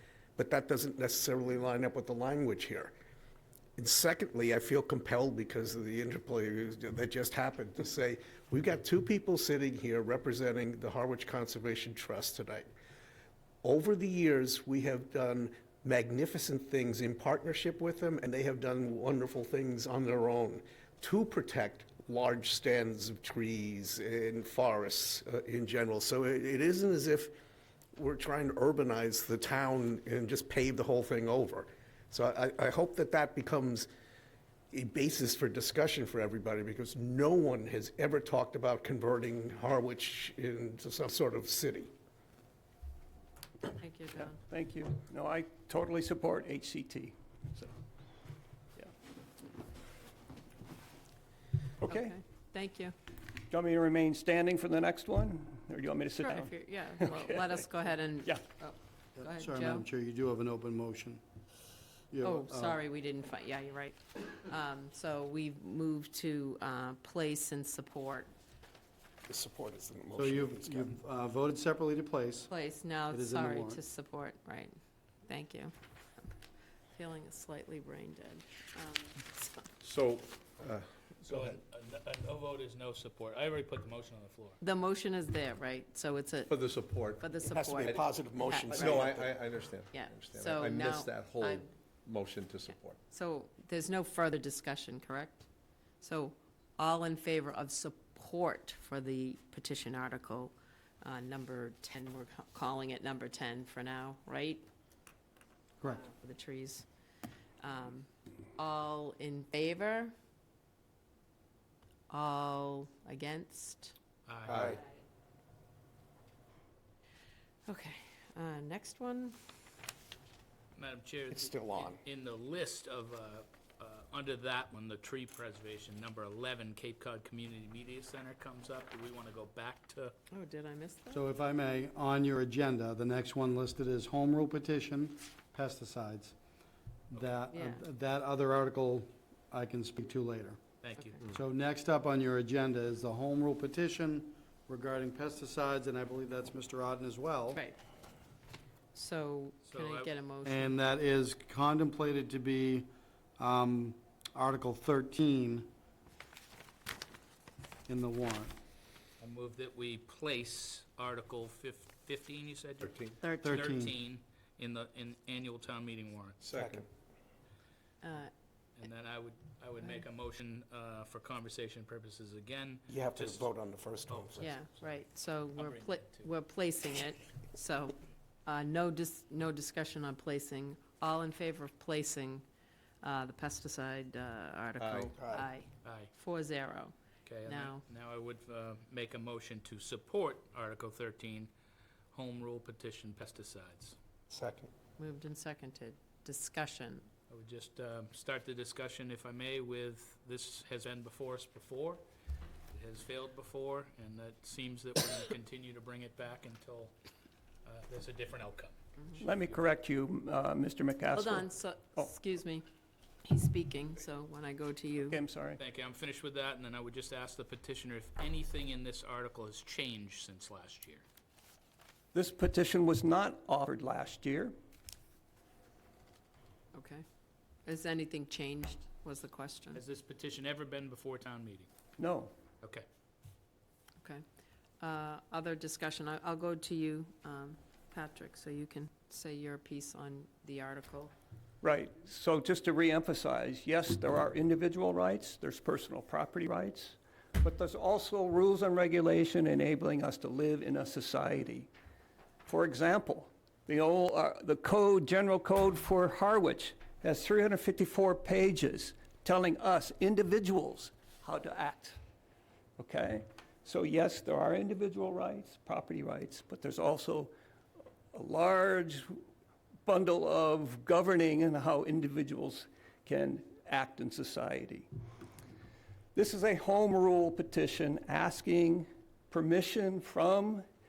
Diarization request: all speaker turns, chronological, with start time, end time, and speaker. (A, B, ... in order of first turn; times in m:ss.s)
0:00.4-0:02.9 A
0:03.8-0:12.7 A
0:13.6-0:27.3 A
0:28.0-0:33.9 A
0:34.7-0:41.9 A
0:43.7-0:44.4 B
0:44.4-0:47.7 C
0:51.8-0:52.1 C
0:51.9-0:52.9 B
0:53.5-0:57.6 C
0:56.2-0:59.8 B
0:59.2-1:01.2 D
1:02.1-1:02.8 D
1:02.2-1:08.3 B
1:09.3-1:10.9 A
1:10.2-1:12.5 D
1:12.5-1:15.7 B
1:13.1-1:13.8 D
1:16.9-1:19.7 B
1:19.8-1:21.6 E
1:21.2-1:24.6 F
1:24.6-1:26.6 B
1:26.5-1:27.3 E
1:27.1-1:29.2 B
1:27.4-1:29.3 A
1:28.7-1:33.0 E
1:29.9-1:31.7 B
1:33.1-1:35.4 B
1:36.0-1:44.7 B
1:45.9-1:46.8 B
1:47.6-1:50.1 B
1:52.1-1:53.9 B
1:54.2-1:54.8 F
1:54.5-1:54.8 E
1:57.6-1:59.4 B
2:00.7-2:10.1 F
2:01.3-2:02.0 A
2:10.3-2:11.2 B
2:11.1-2:16.3 D
2:17.1-2:20.6 D
2:17.5-2:17.8 B
2:20.8-2:21.2 F
2:21.3-2:27.6 D
2:28.9-2:30.9 B
2:29.7-2:30.1 F
2:30.4-2:35.7 D
2:37.9-2:38.6 D
2:39.2-2:46.4 F
2:42.8-2:43.2 E
2:43.2-2:43.6 B
2:43.4-2:43.9 D
2:46.4-2:46.9 E
2:46.5-2:46.8 A
2:48.0-2:48.3 B
2:48.8-2:53.5 F
2:52.9-2:54.6 A
2:54.1-2:54.5 F
2:54.4-3:02.4 B
2:55.6-2:56.3 F
3:03.0-3:06.9 B
3:04.8-3:05.1 E
3:05.1-3:05.4 A
3:05.8-3:06.1 F
3:07.2-3:11.5 F
3:07.4-3:07.8 B
3:12.1-3:14.0 F
3:14.3-3:14.7 A
3:15.0-3:17.1 B
3:17.3-3:22.0 F
3:22.7-3:26.9 F
3:27.6-3:29.6 F
3:29.2-3:31.4 C
3:31.1-3:32.6 B
3:33.2-3:35.2 B
3:35.0-3:35.6 C
3:35.6-3:41.0 F
3:42.1-3:44.5 C
3:46.7-3:47.0 B
3:47.6-3:49.8 B
3:49.7-3:51.7 F
3:52.0-3:52.3 C
3:54.8-4:01.1 B
4:01.6-4:11.7 C
4:12.4-4:22.0 C
4:22.8-4:27.3 C
4:28.1-4:29.2 C
4:29.8-4:34.9 C
4:36.1-4:40.6 C